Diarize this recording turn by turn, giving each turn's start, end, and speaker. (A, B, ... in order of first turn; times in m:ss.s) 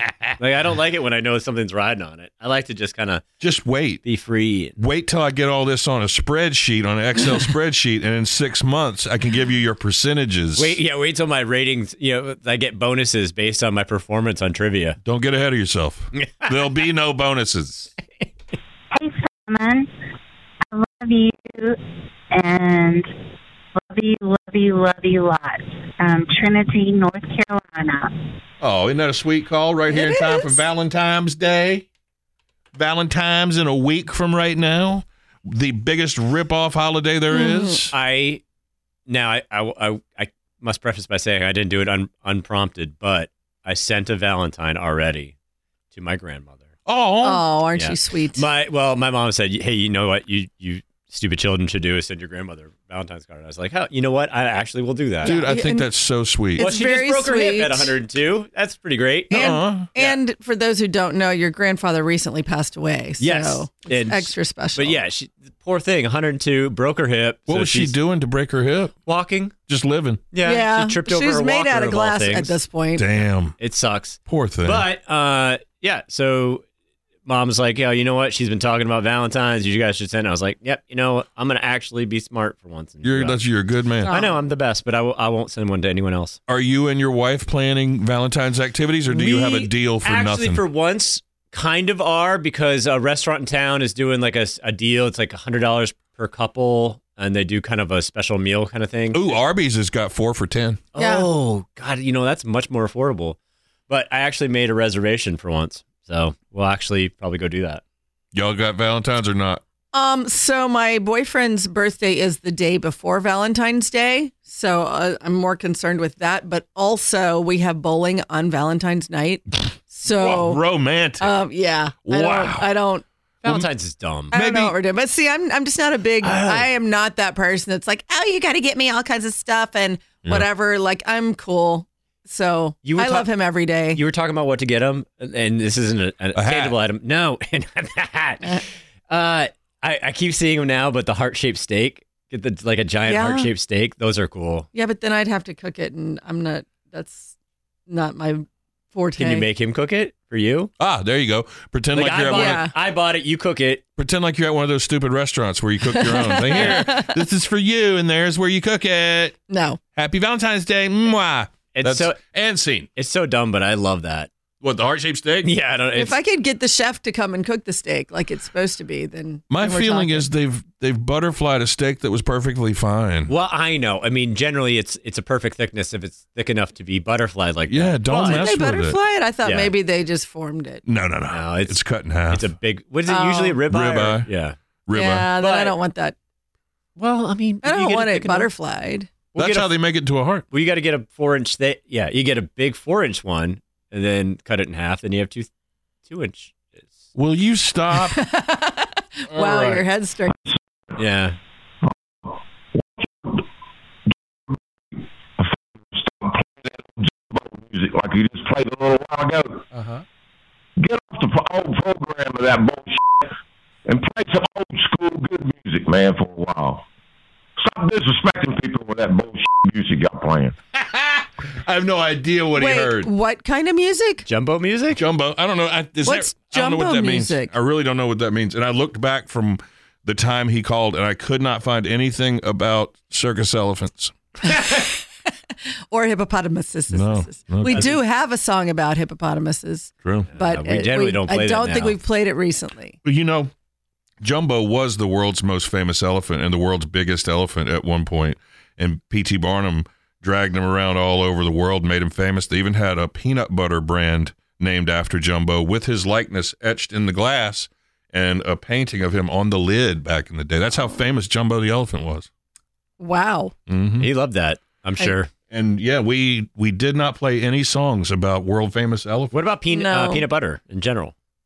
0:00.4-0:03.2 A
0:03.4-0:04.0 B
0:04.0-0:04.8 A
0:04.8-0:10.8 B
0:10.6-0:15.0 A
0:15.0-0:17.9 B
0:16.2-0:16.5 A
0:18.9-0:19.9 C
0:20.7-0:21.8 C
0:22.3-0:23.1 C
0:23.8-0:28.1 C
0:28.6-0:31.8 B
0:29.9-0:30.6 D
0:32.7-0:37.9 B
0:37.3-0:37.8 D
0:37.9-0:38.4 A
0:39.1-0:45.3 A
0:45.9-0:46.7 A
0:46.8-0:47.5 B
0:47.2-0:48.4 D
0:47.7-0:55.4 A
0:55.2-0:55.9 D
0:55.2-0:56.7 B
0:56.6-0:57.9 D
0:56.6-1:00.2 A
0:59.3-0:59.9 B
0:59.3-1:05.0 D
1:03.2-1:07.9 A
1:07.5-1:09.0 B
1:09.0-1:09.5 A
1:09.7-1:10.2 B
1:10.3-1:12.6 A
1:10.4-1:13.0 D
1:13.0-1:13.5 B
1:13.6-1:16.6 A
1:14.3-1:14.8 B
1:17.2-1:23.4 A
1:23.0-1:24.1 B
1:24.0-1:24.4 D
1:24.1-1:26.4 A
1:26.5-1:30.6 B
1:29.1-1:39.4 A
1:39.1-1:40.8 B
1:40.9-1:43.4 A
1:41.0-1:41.3 D
1:43.9-1:47.8 A
1:48.3-1:49.6 B
1:49.9-2:00.6 D
2:00.0-2:01.4 B
2:01.2-2:03.0 D
2:02.0-2:02.7 B
2:03.4-2:04.3 A
2:04.3-2:04.8 B
2:04.3-2:14.0 D
2:06.2-2:06.7 A
2:12.8-2:13.3 A
2:13.9-2:24.7 A
2:16.3-2:16.7 B
2:23.0-2:23.5 D
2:24.7-2:27.3 D
2:27.9-2:29.5 D
2:29.2-2:30.7 A
2:30.8-2:32.6 B
2:31.9-2:33.8 A
2:32.3-2:32.7 D
2:34.0-2:39.4 B
2:35.9-2:37.1 D
2:39.5-2:39.8 D
2:40.0-2:42.9 B
2:41.7-2:42.2 A
2:43.0-2:44.3 A
2:44.6-2:45.5 B
2:45.4-2:46.2 A
2:45.9-2:50.3 D
2:49.5-2:53.3 B
2:53.3-2:58.5 A
2:57.7-2:59.0 B
2:58.2-3:00.8 D
2:59.4-2:59.7 A
3:00.8-3:02.5 B
3:01.3-3:01.8 A
3:02.3-3:04.6 A
3:03.1-3:03.6 D
3:03.7-3:04.3 B
3:04.8-3:05.3 B
3:04.9-3:06.2 D
3:05.4-3:05.8 A
3:07.0-3:08.5 A
3:07.6-3:09.1 D
3:09.3-3:09.7 A
3:09.4-3:10.4 B
3:10.5-3:15.5 A
3:16.0-3:17.0 A
3:17.1-3:18.2 B
3:18.0-3:20.4 D
3:19.3-3:19.8 B
3:21.0-3:21.4 A
3:22.8-3:23.4 E
3:25.4-3:29.6 E
3:29.7-3:30.0 B
3:30.8-3:33.3 E
3:33.9-3:36.8 E
3:37.6-3:40.5 E
3:40.7-3:43.1 B
3:42.5-3:44.2 D
3:44.2-3:45.0 A
3:45.0-3:54.1 B
3:46.0-3:47.5 D
3:54.4-3:55.0 D
3:55.9-4:03.0 D
3:56.9-3:57.9 B
3:57.7-3:58.0 A
4:00.0-4:00.3 B
4:00.3-4:02.0 A
4:03.0-4:03.5 B
4:04.2-4:22.3 B
4:23.0-4:23.5 D
4:23.7-4:24.1 B
4:24.0-4:25.3 A
4:25.5-4:29.3 B
4:29.3-4:31.1 A
4:29.7-4:30.2 D